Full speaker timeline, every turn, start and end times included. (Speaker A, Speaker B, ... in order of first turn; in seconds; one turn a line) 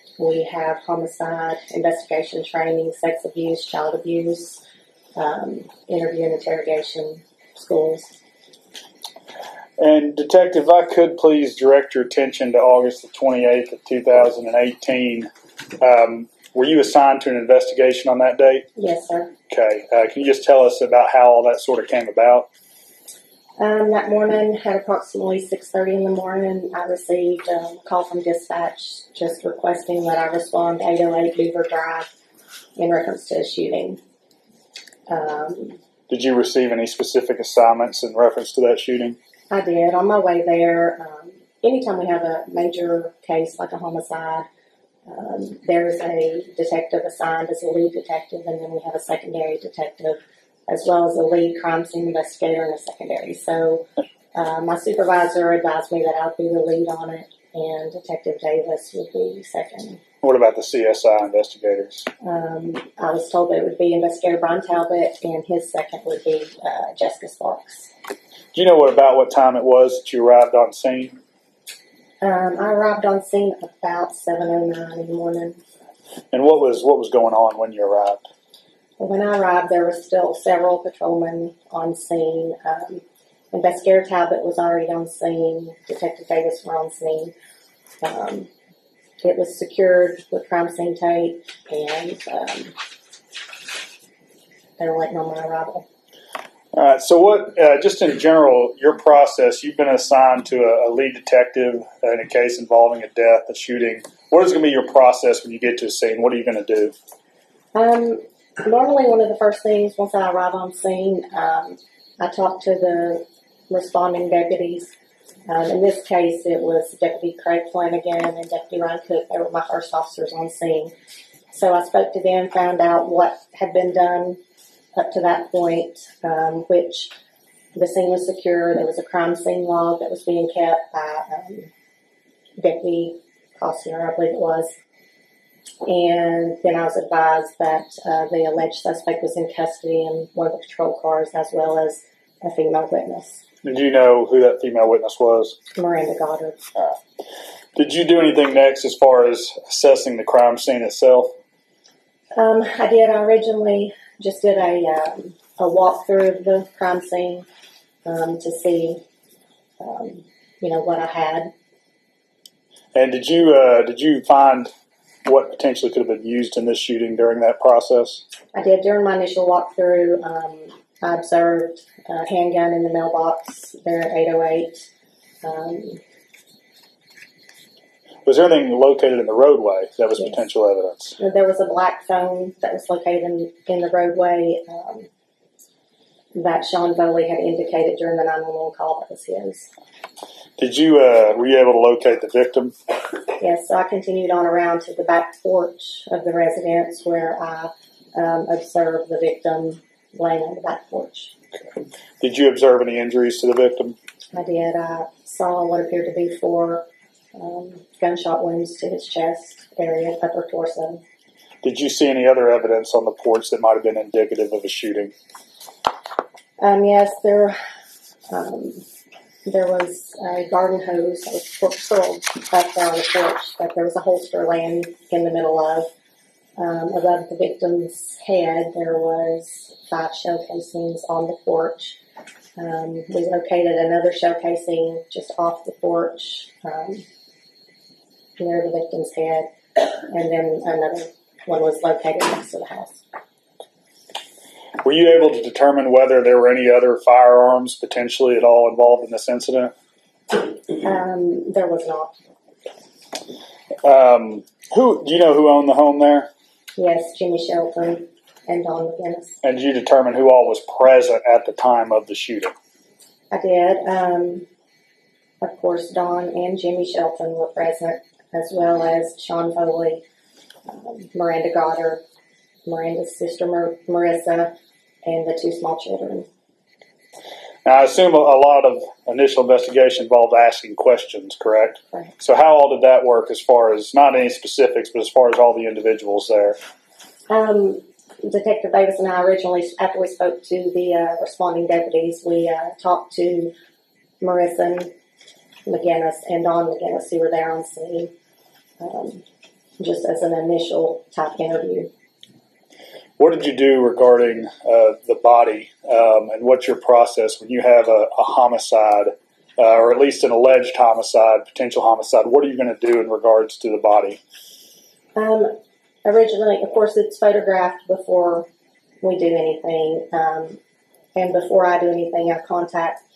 Speaker A: 0.2-4.6
Speaker A: 5.1-8.1
Speaker B: 9.8-15.3
Speaker B: 15.8-18.6
Speaker A: 18.8-19.3
Speaker B: 19.5-22.5
Speaker A: 23.6-32.1
Speaker A: 32.8-34.0
Speaker A: 35.1-35.8
Speaker B: 36.1-39.2
Speaker A: 39.5-44.5
Speaker A: 45.1-60.0
Speaker B: 60.2-62.1
Speaker A: 62.2-67.9
Speaker B: 68.5-71.2
Speaker A: 72.2-75.6
Speaker B: 76.3-78.2
Speaker A: 79.0-87.3
Speaker A: 88.0-88.5
Speaker A: 89.2-92.7
Speaker A: 94.8-95.8
Speaker B: 96.7-106.9
Speaker A: 107.7-114.9
Speaker A: 115.5-120.9
Speaker A: 121.5-124.4
Speaker A: 125.0-127.1
Speaker A: 127.7-131.7
Speaker A: 132.6-134.7
Speaker A: 135.8-143.4
Speaker B: 143.6-145.6
Speaker A: 145.8-146.6
Speaker B: 147.8-151.3
Speaker A: 152.3-157.4
Speaker A: 158.0-159.0
Speaker A: 159.8-161.5
Speaker B: 162.9-164.7
Speaker B: 165.2-168.2
Speaker A: 168.5-174.8
Speaker A: 175.4-176.0
Speaker B: 178.2-181.2
Speaker A: 180.2-180.4
Speaker A: 181.2-185.1
Speaker A: 186.3-189.7
Speaker B: 190.6-192.7
Speaker A: 193.4-201.3
Speaker B: 202.2-203.9
Speaker A: 204.3-211.0
Speaker B: 211.6-215.1
Speaker A: 216.6-217.6
Speaker A: 218.3-218.8
Speaker A: 219.4-225.9
Speaker A: 226.6-232.0
Speaker A: 232.6-237.0
Speaker A: 238.4-243.0
Speaker B: 244.8-249.7
Speaker A: 250.8-252.1
Speaker B: 253.8-256.3
Speaker A: 256.8-259.4
Speaker B: 259.4-262.5
Speaker A: 263.3-264.4
Speaker A: 265.4-270.0
Speaker A: 270.6-272.0
Speaker A: 272.6-276.3
Speaker B: 277.6-286.6
Speaker A: 287.3-293.5
Speaker A: 294.2-294.9
Speaker A: 295.6-298.1
Speaker A: 298.8-299.2
Speaker A: 299.8-301.9
Speaker B: 303.2-314.2
Speaker A: 315.1-318.5
Speaker A: 319.0-320.6
Speaker A: 321.1-323.0